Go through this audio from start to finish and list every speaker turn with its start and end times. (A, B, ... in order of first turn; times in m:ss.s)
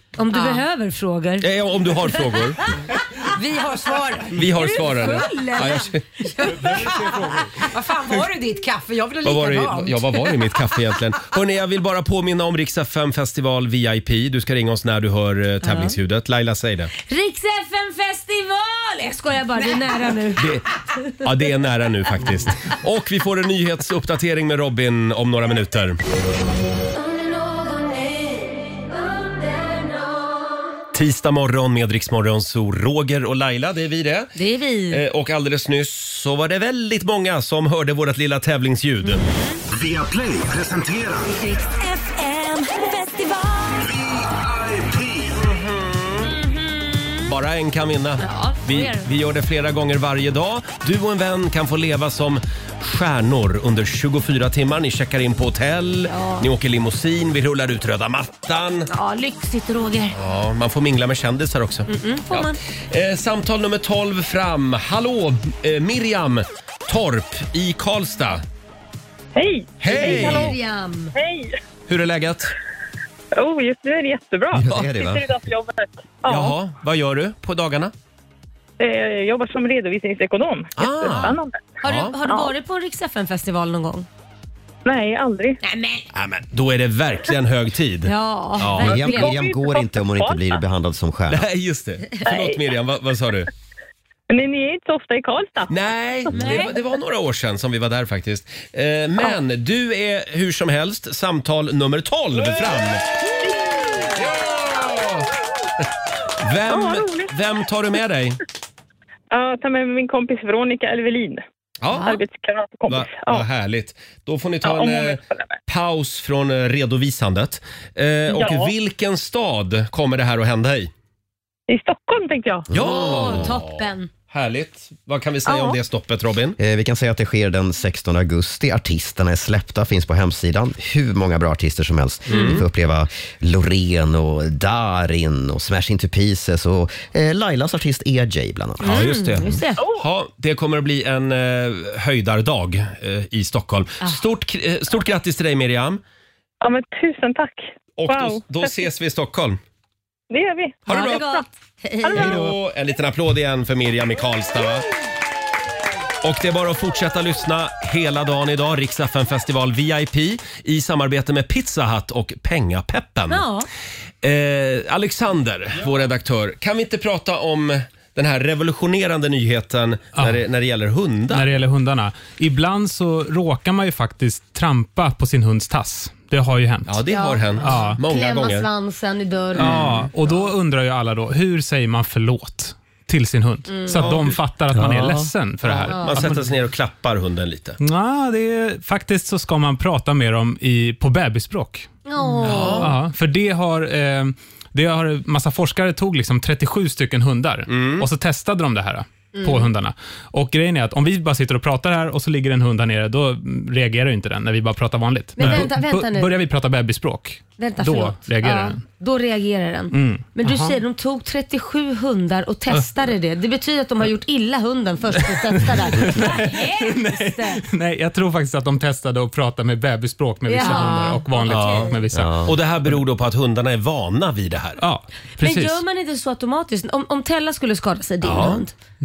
0:00.2-0:01.5 A
0:00.3-0:00.6 B
0:01.4-0:02.6 C
0:02.1-0:02.6 A
0:03.2-0:04.5 B
0:04.4-0:06.0 C
0:04.5-0:06.5 A
0:06.4-0:10.7 B
0:06.7-0:07.5 D
0:09.2-0:16.9 C
0:15.6-0:16.0 A
0:17.1-0:21.3 A
0:20.4-0:20.6 C
0:21.2-0:26.0 C
0:27.0-0:30.5 A
0:30.9-0:34.3 C
0:34.4-0:35.0 A
0:34.9-0:39.2 C
0:39.0-0:39.6 A
0:39.7-0:41.3 E
0:41.4-0:42.3 A
0:41.8-0:43.7 F
0:44.5-0:45.3 E
0:45.4-0:46.3 C
0:46.2-0:47.4 A
0:47.3-0:58.9 C
0:48.2-0:49.1 A
0:56.1-0:56.5 A
0:58.9-1:00.2 A
1:00.1-1:08.4 C
1:01.9-1:02.6 A
1:09.4-1:10.5 G
1:09.8-1:10.6 C
1:09.9-1:11.1 A
1:11.2-1:11.6 G
1:11.9-1:12.5 C
1:13.4-1:16.6 G
1:14.5-1:15.3 H
1:16.3-1:17.9 C
1:18.8-1:21.6 G
1:20.8-1:22.2 C
1:21.8-1:24.1 A
1:24.8-1:25.6 G
1:25.6-1:26.0 A
1:26.1-1:29.0 C
1:28.0-1:29.3 A
1:28.8-1:31.5 H
1:28.8-1:30.5 G
1:31.3-1:33.5 C
1:32.2-1:32.6 G
1:34.3-1:35.7 G
1:35.7-1:43.0 C
1:36.3-1:36.8 A
1:36.3-1:36.6 G
1:43.4-1:44.1 G
1:44.2-1:45.3 C
1:46.4-1:48.4 C
1:46.7-1:47.3 G
1:49.3-1:51.4 G
1:51.8-1:52.2 C
1:52.0-1:53.4 G
1:52.9-2:00.9 C
1:54.6-1:55.6 G
1:58.3-1:58.7 G
2:01.7-2:02.7 G
2:02.7-2:06.6 C
2:02.7-2:03.5 H
2:02.8-2:04.1 A
2:05.5-2:05.8 A
2:06.6-2:19.1 H
2:12.3-2:12.6 C
2:12.3-2:12.6 A
2:18.8-2:19.8 A
2:18.8-2:26.0 C
2:26.6-2:28.7 G
2:28.0-2:29.6 C
2:30.3-2:30.9 G
2:30.9-2:31.4 C
2:30.9-2:32.5 A
2:32.0-2:32.4 G
2:32.1-2:34.9 C
2:36.2-2:43.4 C
2:43.3-2:43.7 A
2:44.2-2:51.5 C
2:50.2-2:50.4 D
2:51.3-2:57.0 D
2:56.9-2:58.7 C
2:57.1-2:59.8 A
2:57.6-2:58.0 D
2:59.6-3:00.1 C
2:59.6-3:06.5 D
3:03.7-3:04.1 A
3:04.0-3:05.1 C
3:05.7-3:07.8 C
3:05.9-3:06.2 A
3:07.8-3:11.9 D
3:12.1-3:12.9 A
3:12.4-3:12.9 C
3:12.7-3:28.8 D
3:17.7-3:18.1 C
3:19.4-3:19.7 A
3:25.4-3:26.3 A
3:27.6-3:37.6 A
3:29.9-3:30.3 D
3:30.4-3:30.8 B
3:36.0-3:43.0 D
3:40.4-3:42.0 A
3:40.6-3:41.2 B
3:41.5-3:44.8 C
3:42.1-3:42.5 H
3:44.8-3:45.8 D
3:45.4-3:48.7 A
3:48.2-3:48.6 C